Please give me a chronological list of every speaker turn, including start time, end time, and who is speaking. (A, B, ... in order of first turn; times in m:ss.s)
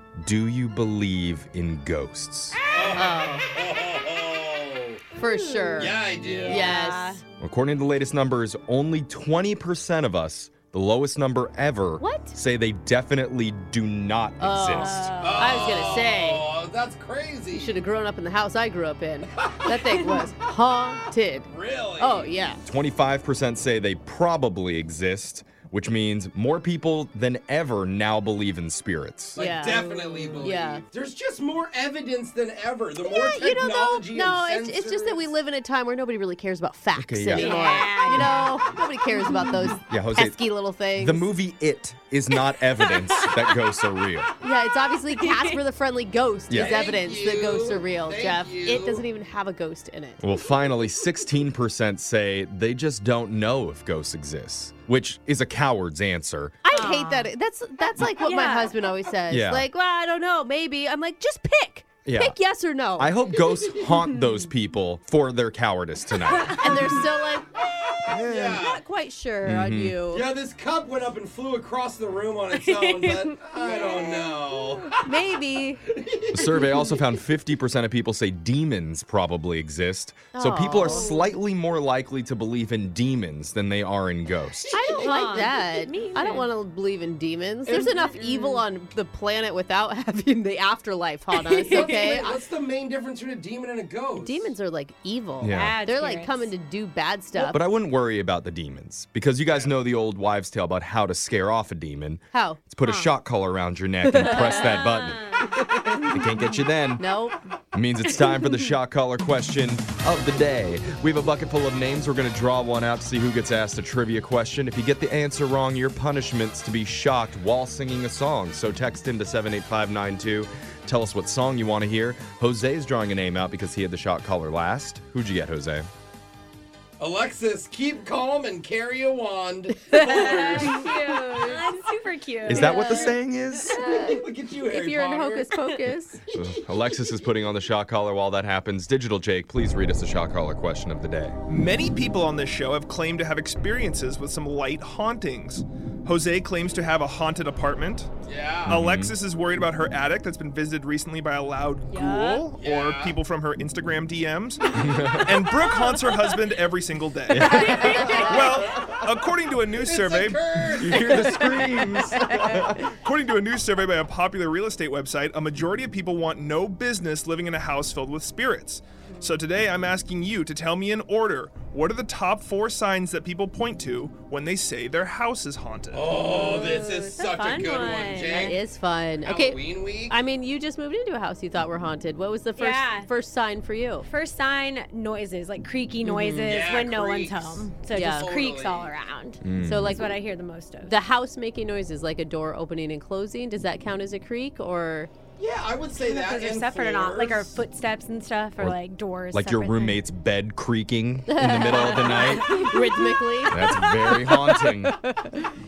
0:00.2-0:02.6 A
0:02.7-0:05.0 B
0:02.9-0:03.5 C
0:05.1-0:07.2 D
0:05.2-0:07.2 C
0:05.8-0:06.8 B
0:07.4-0:15.1 A
0:12.0-0:12.4 C
0:14.4-0:16.4 C
0:14.7-0:15.7 D
0:15.2-0:17.8 B
0:17.5-0:22.6 C
0:19.4-0:19.7 B
0:21.5-0:22.3 B
0:22.6-0:29.4 A
0:29.3-0:35.3 B
0:29.4-0:30.8 C
0:29.8-0:30.5 D
0:33.0-0:41.3 C
0:37.0-0:37.6 A
0:37.3-0:38.4 D
0:39.9-0:40.4 A
0:41.0-0:44.3 A
0:42.5-0:42.8 D
0:44.4-0:50.2 C
0:45.1-0:45.6 D
0:46.5-0:46.8 A
0:46.5-0:49.0 B
0:50.2-0:56.6 A
0:56.6-1:03.1 C
0:56.7-0:57.3 D
0:58.2-0:58.7 D
0:59.3-0:59.6 A
1:02.0-1:02.4 A
1:03.0-1:07.0 A
1:06.4-1:06.8 D
1:06.4-1:07.5 C
1:08.0-1:10.3 C
1:08.1-1:08.3 A
1:08.2-1:08.8 B
1:09.4-1:10.0 A
1:10.1-1:15.1 B
1:12.5-1:13.9 D
1:13.6-1:15.8 C
1:15.9-1:16.8 B
1:16.3-1:24.8 A
1:20.3-1:21.2 C
1:20.8-1:21.3 D
1:24.7-1:25.2 B
1:24.7-1:32.4 C
1:25.0-1:26.5 D
1:27.8-1:28.3 D
1:27.9-1:28.4 B
1:31.4-1:32.1 D
1:31.6-1:34.5 B
1:34.2-1:37.6 C
1:35.4-1:35.8 A
1:35.5-1:36.5 D
1:37.4-1:45.3 A
1:39.5-1:39.8 B
1:42.3-1:42.6 C
1:42.8-1:43.2 D
1:44.0-1:47.4 C
1:44.2-1:45.6 D
1:46.1-1:47.0 A
1:47.7-2:05.9 A
2:07.0-2:10.8 B
2:09.9-2:11.6 C
2:09.9-2:13.1 D
2:12.5-2:13.8 A
2:12.5-2:16.2 C
2:13.7-2:15.5 B
2:16.3-2:21.4 A
2:16.4-2:17.1 B
2:21.5-2:28.1 E
2:28.2-2:28.8 B
2:28.6-2:40.6 E
2:28.7-2:29.2 A
2:31.9-2:32.4 D
2:32.5-2:33.2 B
2:34.7-2:35.3 A
2:37.3-2:38.3 A
2:37.4-2:38.2 D
2:37.4-2:38.5 C
2:38.2-2:39.0 B
2:39.7-2:41.7 B
2:40.7-2:42.8 A
2:41.0-2:42.6 C
2:42.8-2:56.2 E
2:55.9-2:58.6 B
2:56.2-2:58.5 D
2:58.3-3:04.0 C
2:59.2-3:00.2 B
3:02.6-3:03.1 D
3:04.0-3:11.0 D
3:06.4-3:09.0 B
3:07.9-3:08.3 C
3:09.4-3:10.0 A
3:09.6-3:10.2 C
3:10.8-3:15.1 C
3:15.4-3:17.6 B
3:16.0-3:20.0 D
3:19.3-3:22.6 A
3:21.3-3:25.4 C
3:21.6-3:24.3 D
3:23.5-3:25.0 A